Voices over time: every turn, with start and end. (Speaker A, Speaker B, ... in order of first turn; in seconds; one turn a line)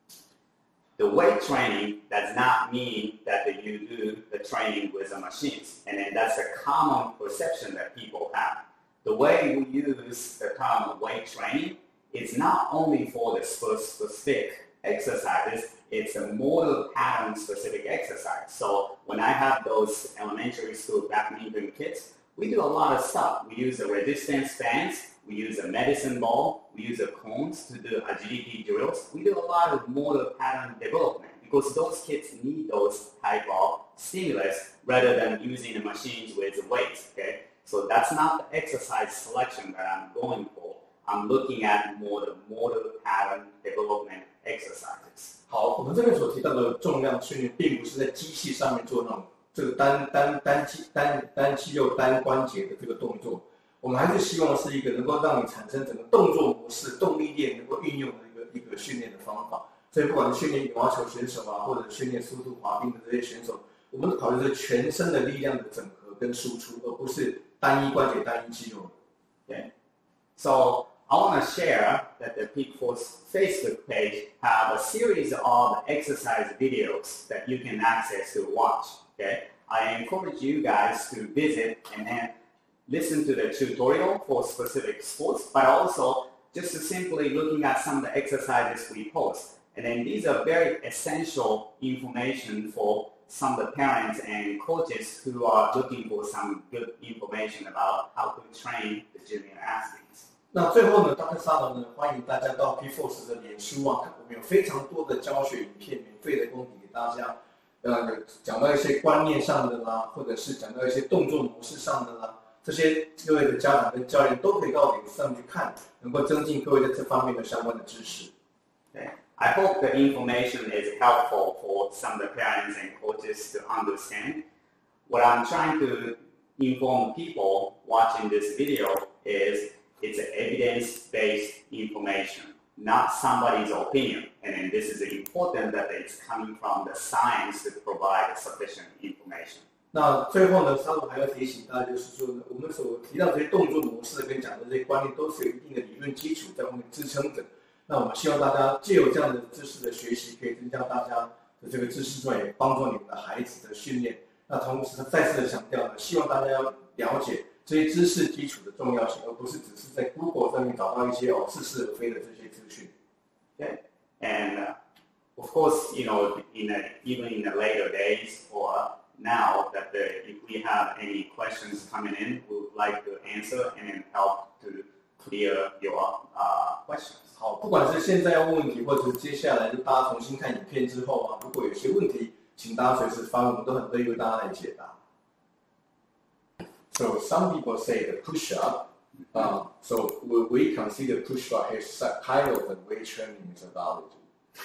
Speaker A: 1.0-45.3
Speaker B: 45.5-68.9
Speaker A: 70.3-82.3
Speaker A: 82.9-100.3
Speaker B: 100.5-118.3
Speaker A: 118.9-124.5
Speaker A: 125.1-139.6
Speaker B: 139.9-162.9
Speaker A: 163.6-164.7
Speaker A: 165.3-177.3
Speaker B: 177.3-185.0
Speaker B: 186.9-194.2